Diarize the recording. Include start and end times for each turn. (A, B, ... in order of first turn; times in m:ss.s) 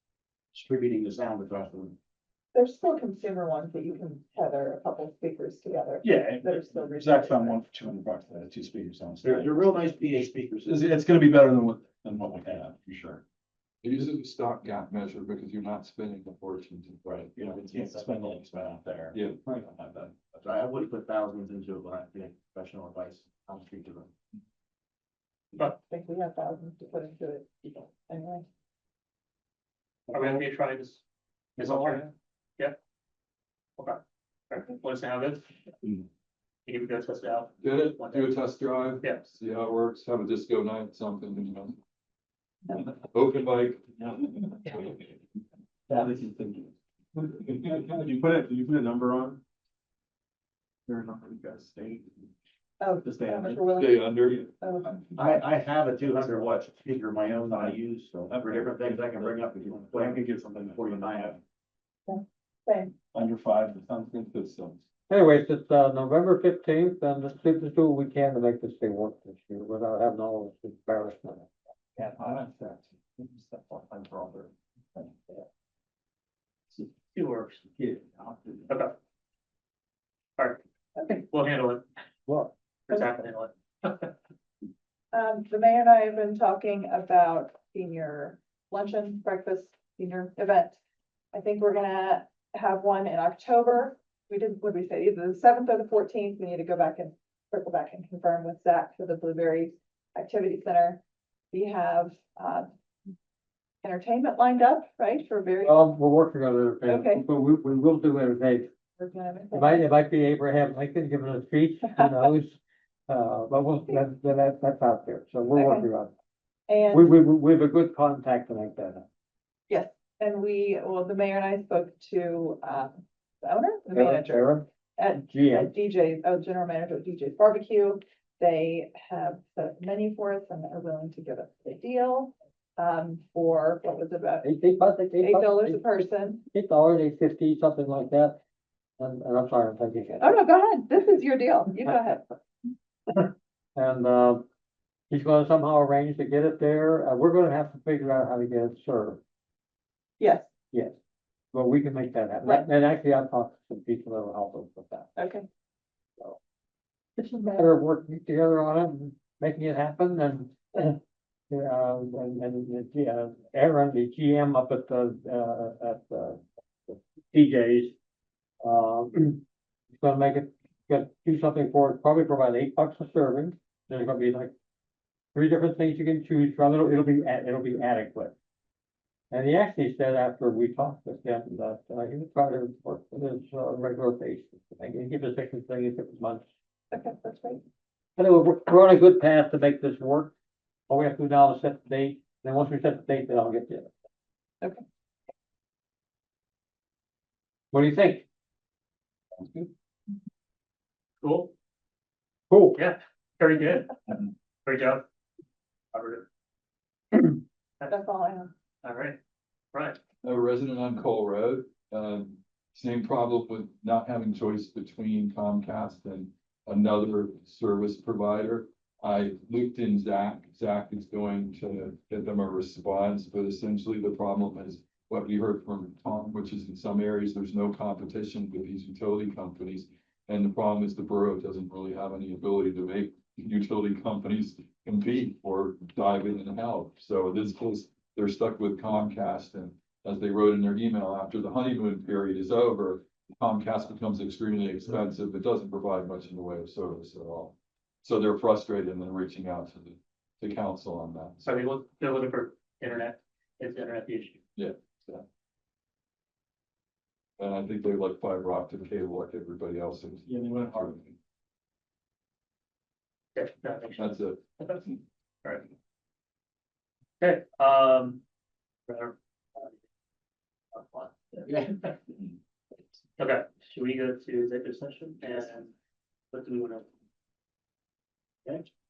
0:00.5-0:02.0 A
0:02.5-0:07.6 B
0:06.0-0:09.8 C
0:09.2-0:10.8 A
0:10.6-0:13.2 C
0:13.8-0:17.3 D
0:17.1-0:18.4 A
0:17.3-0:20.3 C
0:19.1-0:19.4 D
0:20.4-0:24.1 A
0:25.8-0:28.4 B
0:30.1-0:31.0 E
0:31.6-0:32.8 E
0:31.6-0:32.0 F
0:33.8-0:35.5 E
0:36.6-0:38.4 E
0:37.6-0:41.8 D
0:42.7-0:44.8 D
0:45.9-0:49.4 C
0:50.9-0:52.3 C
0:52.8-0:54.9 B
0:53.0-0:54.5 C
0:53.8-0:54.4 D
0:55.1-1:01.4 A
0:58.3-1:01.4 C
1:02.1-1:02.9 B
1:03.1-1:04.8 C
1:05.1-1:11.5 F
1:12.0-1:15.4 C
1:17.1-1:17.6 E
1:17.8-1:18.6 C
1:18.7-1:18.9 E
1:20.4-1:21.8 E
1:22.9-1:24.1 E
1:25.1-1:30.8 B
1:31.3-1:41.0 B
1:41.5-1:42.7 B
1:43.8-1:45.9 B
1:45.6-1:48.7 F
1:46.8-1:47.3 B
1:49.0-1:49.9 B
1:49.5-1:56.1 F
1:55.5-1:55.9 B
1:56.7-1:57.1 B
1:56.9-1:59.0 F
1:59.7-2:02.9 B
2:03.4-2:14.4 B
2:03.9-2:05.7 F
2:14.4-2:16.0 F
2:15.2-2:16.4 B
2:16.5-2:18.4 F
2:19.0-2:20.3 F
2:20.2-2:22.2 B
2:23.1-2:24.5 F
2:25.1-2:29.2 F
2:30.2-2:30.5 B
2:31.5-2:35.1 F
2:35.2-2:35.4 B
2:37.2-2:41.0 F
2:41.5-2:48.0 F
2:48.6-2:49.4 F
2:50.0-2:54.5 F
2:55.3-2:58.3 F
2:59.3-3:06.4 F
3:06.9-3:07.6 B
3:08.2-3:10.3 F
3:10.9-3:13.9 F
3:17.7-3:18.2 F
3:21.2-3:21.5 E
3:22.5-3:22.8 F
3:22.7-3:25.0 E
3:25.9-3:26.2 E
3:27.1-3:27.9 E
3:27.9-3:28.5 B
3:28.8-3:29.2 E
3:29.7-3:30.0 E
3:30.2-4:11.5 D
4:11.4-4:14.4 E
4:14.6-4:15.2 D
4:17.4-4:21.1 D
4:20.3-4:20.9 C
4:23.3-4:25.6 E
4:24.0-4:24.4 D
4:27.2-4:28.2 E
4:28.9-4:29.7 E
4:30.9-4:31.6 E
4:33.2-4:35.7 E
4:36.3-4:36.8 E